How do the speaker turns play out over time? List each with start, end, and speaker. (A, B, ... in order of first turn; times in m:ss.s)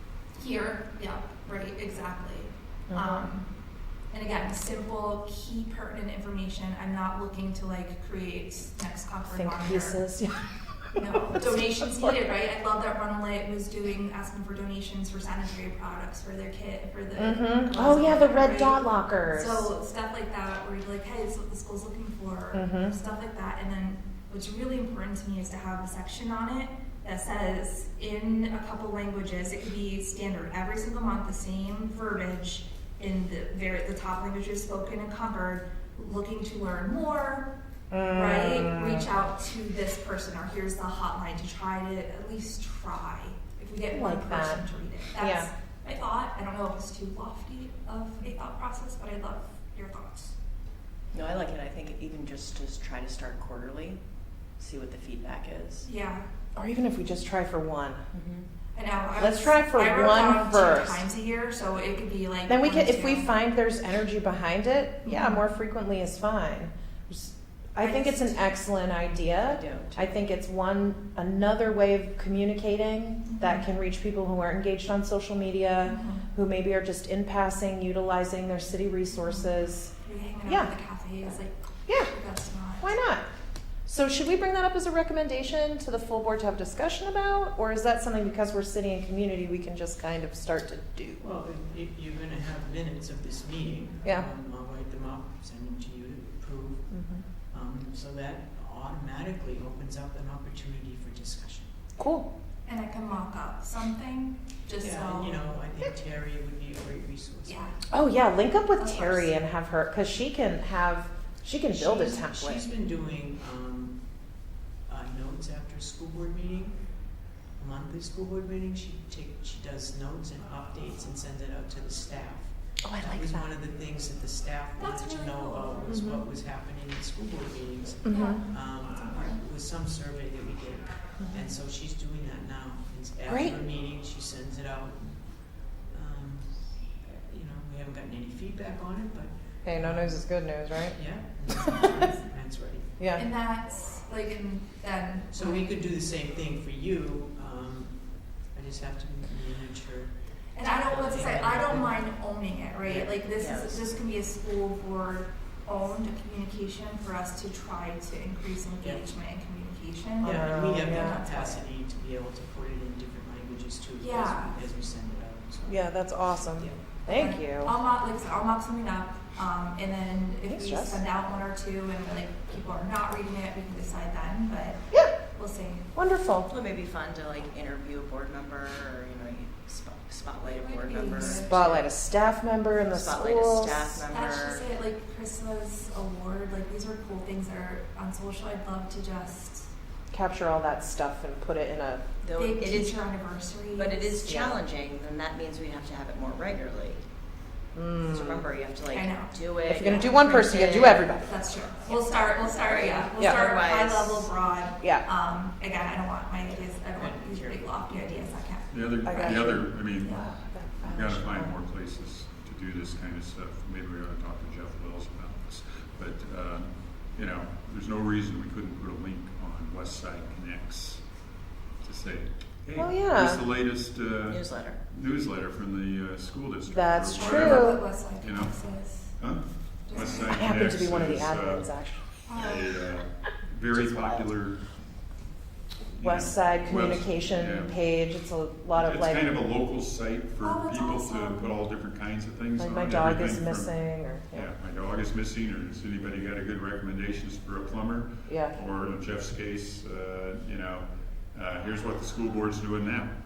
0:00.4-0:03.5 A
0:02.9-0:03.3 B
0:04.1-0:10.0 A
0:09.3-0:10.4 B
0:11.0-0:37.5 A
0:11.3-0:12.2 B
0:17.2-0:19.7 B
0:22.5-0:22.9 B
0:37.9-0:39.0 B
0:38.1-0:50.3 A
0:43.9-0:44.7 B
0:45.2-0:45.5 B
0:51.1-0:54.0 C
0:54.6-0:55.8 C
0:55.8-0:56.2 A
0:56.5-0:58.0 B
0:58.1-0:58.5 C
0:58.7-1:03.3 A
0:59.2-1:01.0 B
1:02.5-1:19.9 B
1:05.0-1:05.4 A
1:07.8-1:08.4 A
1:09.4-1:10.1 C
1:13.2-1:13.6 A
1:15.8-1:16.2 A
1:19.1-1:19.4 A
1:20.0-1:22.9 A
1:21.9-1:22.1 B
1:22.8-1:23.2 B
1:23.8-1:31.2 B
1:31.2-1:36.9 D
1:36.9-1:37.2 B
1:37.5-1:41.7 D
1:42.0-1:42.3 B
1:42.6-1:45.4 A
1:44.8-1:47.7 D
1:47.4-1:47.8 A
1:47.9-1:52.6 B
1:48.8-1:49.3 A
1:51.7-1:54.0 D
1:54.9-1:56.8 D
1:57.6-2:15.2 D
2:02.8-2:03.5 B
2:04.8-2:05.8 A
2:05.9-2:06.2 B
2:08.0-2:08.4 B
2:08.1-2:08.4 A
2:13.2-2:13.6 B
2:15.9-2:20.2 D
2:19.6-2:21.9 B
2:20.9-2:22.9 D
2:23.0-2:23.3 B
2:23.2-2:25.7 A
2:25.3-2:30.1 D
2:30.5-2:41.6 A
2:30.8-2:32.0 D
2:32.8-2:33.2 D
2:33.4-2:34.0 C
2:38.8-2:39.1 D
2:40.2-2:46.8 D
2:40.2-2:41.2 B
2:44.0-2:44.5 A
2:45.6-2:47.8 B
2:47.1-2:55.8 A
2:50.5-2:51.0 B
2:55.9-2:56.5 B
2:56.5-3:01.8 C
3:00.4-3:01.8 A
3:01.2-3:04.0 B
3:02.9-3:04.7 C
3:04.1-3:09.7 A
3:10.1-3:12.0 B
3:12.2-3:13.0 C
3:12.4-3:14.1 A
3:13.7-3:17.0 C
3:14.2-3:14.6 B
3:17.7-3:18.4 B
3:18.0-3:21.2 C
3:18.9-3:19.3 A
3:19.6-3:21.3 B
3:21.2-3:30.2 A
3:21.8-3:24.3 C
3:23.2-3:23.4 B
3:26.9-3:27.3 D
3:27.3-3:28.2 C
3:28.7-3:30.2 E
3:29.0-3:31.5 B
3:30.8-3:41.0 E
3:41.8-3:54.6 E
3:42.8-3:43.4 B
3:44.3-3:44.8 C
3:46.7-3:47.8 B
3:47.1-3:49.2 A
3:49.8-3:50.3 A
3:50.2-3:52.0 B
3:52.3-3:52.7 A
3:53.8-3:54.2 C
3:55.9-3:57.8 E
3:56.0-3:59.3 B
3:58.7-4:13.1 E
4:00.4-4:01.6 A
4:02.6-4:04.5 B
4:08.3-4:08.5 B